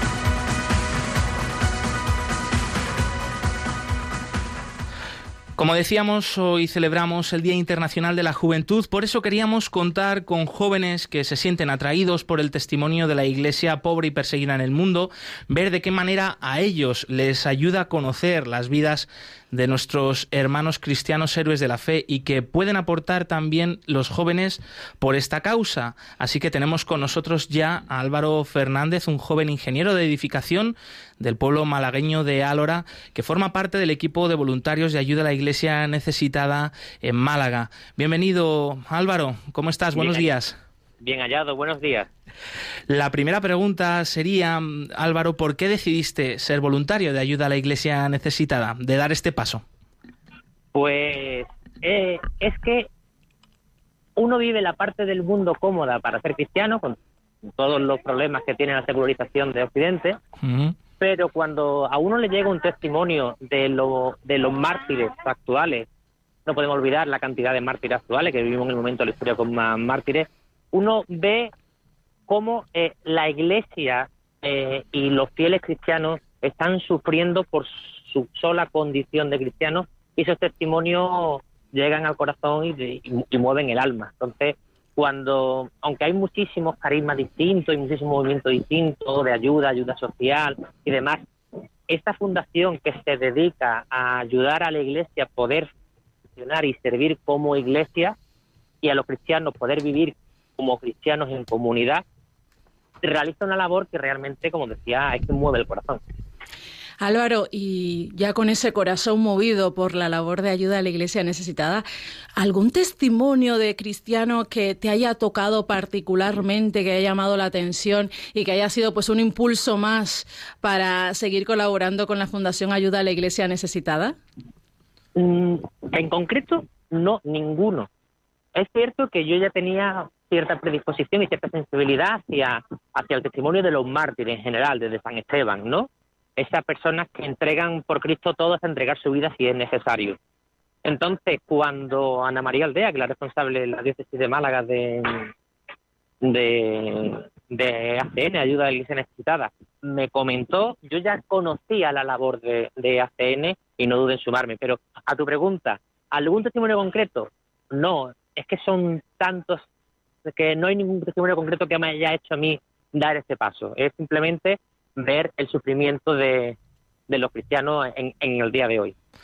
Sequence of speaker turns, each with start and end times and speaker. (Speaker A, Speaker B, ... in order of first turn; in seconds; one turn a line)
Speaker A: 5.6-40.5
Speaker B: 39.9-40.3
Speaker B: 41.0-42.1
Speaker A: 42.9-49.6
Speaker B: 50.7-52.9
Speaker B: 54.2-60.2
Speaker A: 60.4-60.8
Speaker B: 61.0-65.8
Speaker B: 66.5-71.5
Speaker B: 72.3-91.2
Speaker B: 91.9-95.7
Speaker B: 96.4-98.2
Speaker B: 98.8-102.0
Speaker B: 103.0-106.0
Speaker C: 107.0-111.8
Speaker C: 112.4-124.2
Speaker B: 125.2-127.9
Speaker B: 128.5-140.2
Speaker B: 140.8-145.3
Speaker B: 146.2-159.6
Speaker B: 160.2-166.6
Speaker B: 167.1-168.9